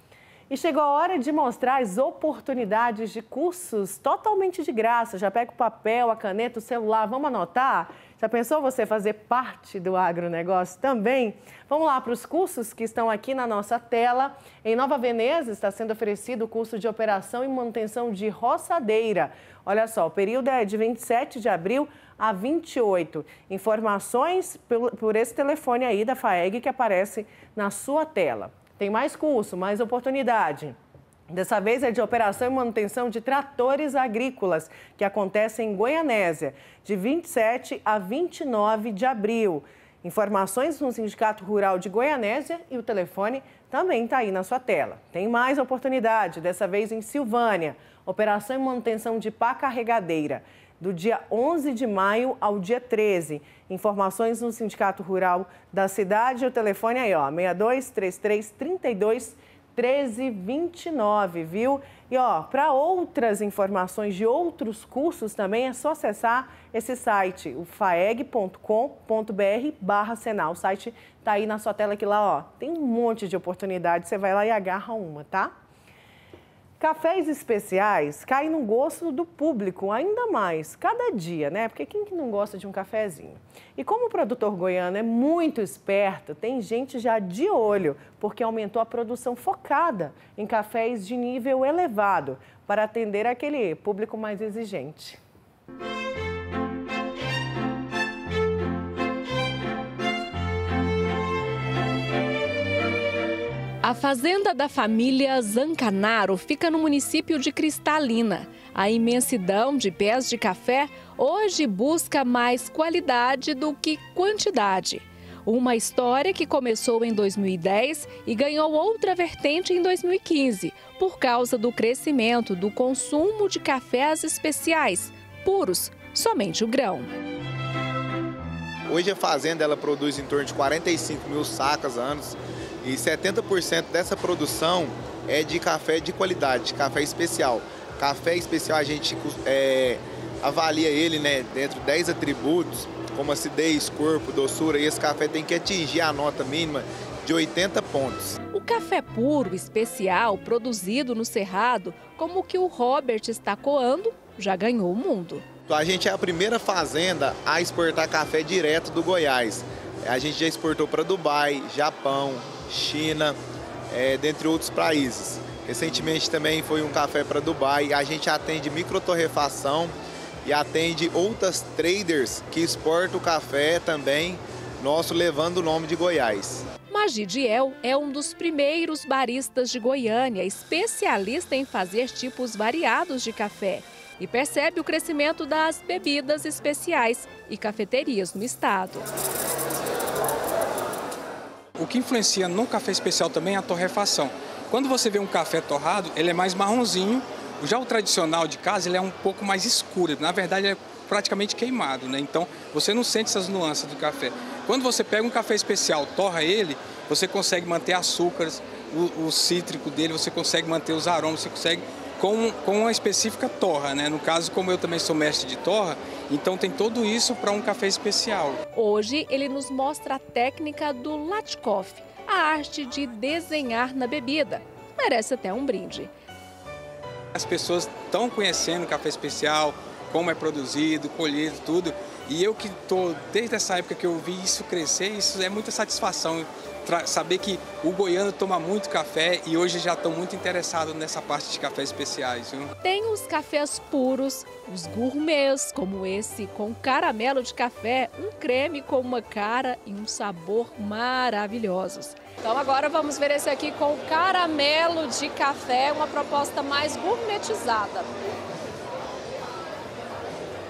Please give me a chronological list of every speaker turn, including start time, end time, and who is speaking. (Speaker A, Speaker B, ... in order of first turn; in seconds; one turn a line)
Speaker A: 0.5-30.8
Speaker A: 31.3-75.5
Speaker A: 76.8-95.2
Speaker B: 103.8-127.1
Speaker C: 128.9-148.4
Speaker B: 148.5-155.4
Speaker C: 155.7-163.4
Speaker C: 163.9-169.9
Speaker C: 170.4-176.7
Speaker B: 176.9-189.1
Speaker D: 191.8-218.6
Speaker B: 218.7-226.1
Speaker D: 227.3-242.7
Speaker B: 242.8-258.1